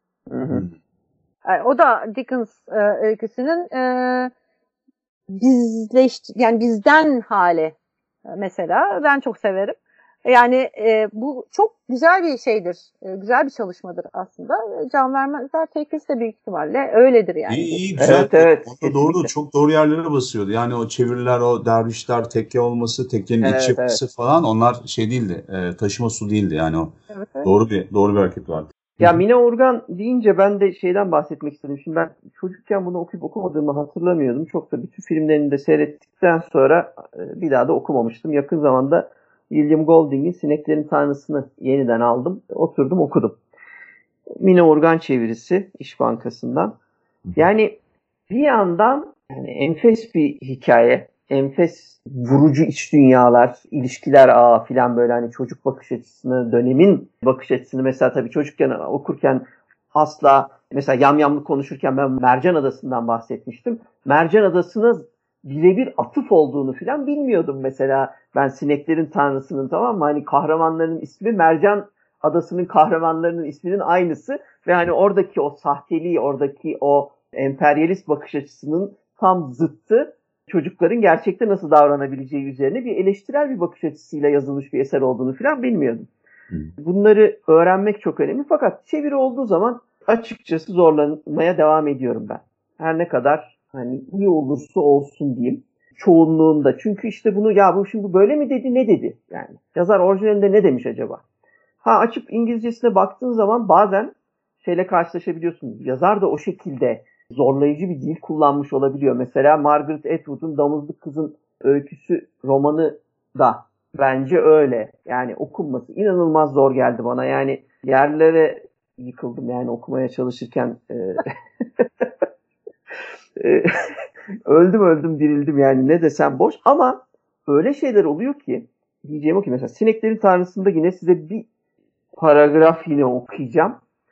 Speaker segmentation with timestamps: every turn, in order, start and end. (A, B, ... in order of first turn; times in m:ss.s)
0:00.3-0:00.7 A
0:01.4-0:04.3 B
0:05.3-0:07.8 B
0:08.3-0:17.8 B
0:17.5-0:29.2 C
0:18.0-0:19.3 A
0:23.4-0:24.0 A
0:27.1-0:27.5 B
0:29.0-0:43.4 A
0:44.4-0:46.7 A
0:47.4-1:26.1 A
1:26.8-1:41.2 A
1:41.8-2:01.2 A
2:03.4-2:03.7 A
2:04.5-2:11.4 A
2:12.2-2:13.8 A